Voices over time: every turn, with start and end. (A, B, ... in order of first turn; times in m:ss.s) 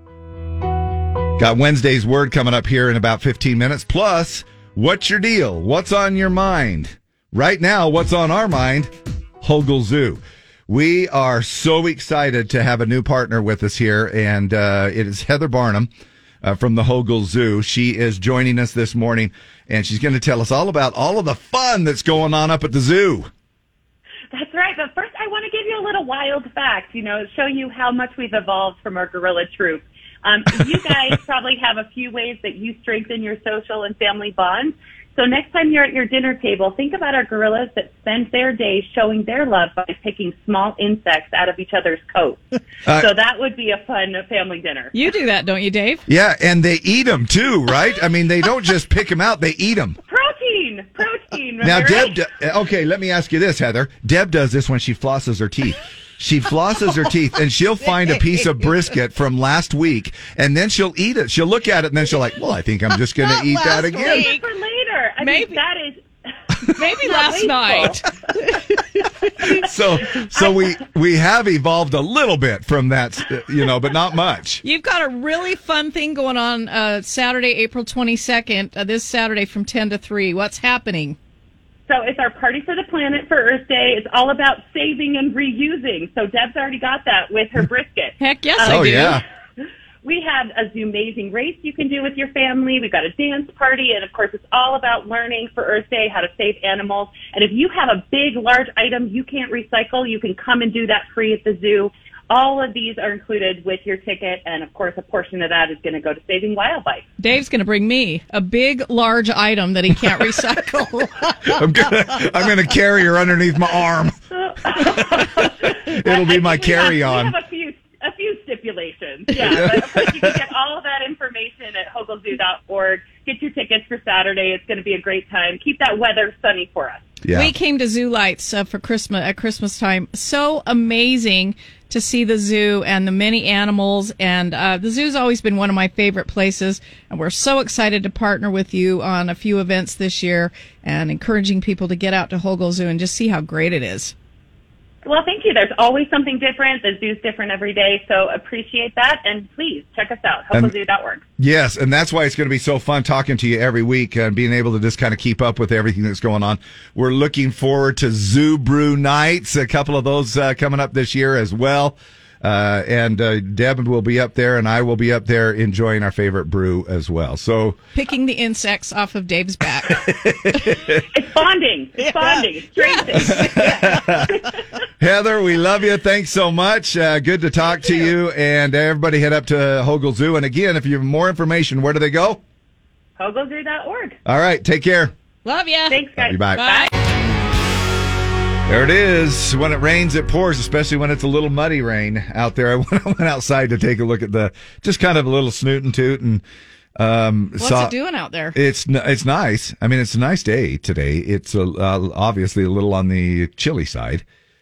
0:01.4-0:15.9 A
0:16.4-0:23.3 A
0:24.3-0:44.9 B
0:42.9-0:43.1 A
0:44.9-0:46.0 C
0:46.1-0:50.0 A
0:50.1-0:52.2 B
0:51.6-1:04.4 A
1:03.3-1:04.5 C
1:03.9-1:06.0 B
1:05.2-1:05.6 C
1:06.8-1:09.5 C
1:07.0-1:08.0 B
1:09.4-1:14.6 A
1:10.4-1:10.7 B
1:14.6-1:21.2 C
1:21.9-1:29.2 B
1:28.2-1:29.2 C
1:28.6-1:29.2 A
1:30.0-1:47.1 B
1:47.2-1:51.4 C
1:51.4-1:54.2 A
1:54.3-2:07.1 B
1:54.7-1:57.4 A
1:59.4-2:00.4 A
2:07.2-2:07.5 A
2:07.3-2:24.1 C
2:25.0-2:31.2 B
2:31.4-2:47.8 A
2:48.0-2:50.0 C
2:50.0-2:51.0 A
2:51.2-2:53.7 B
2:52.8-2:54.0 C
2:53.1-2:54.3 A
2:55.0-3:02.4 A
3:03.2-3:04.2 B
3:04.2-3:05.1 A
3:05.4-3:06.0 C
3:05.9-3:06.9 B
3:06.2-3:06.7 A
3:06.5-3:06.9 C
3:08.7-3:16.4 A
3:17.0-3:17.9 A
3:17.6-3:18.6 C
3:18.5-3:24.2 A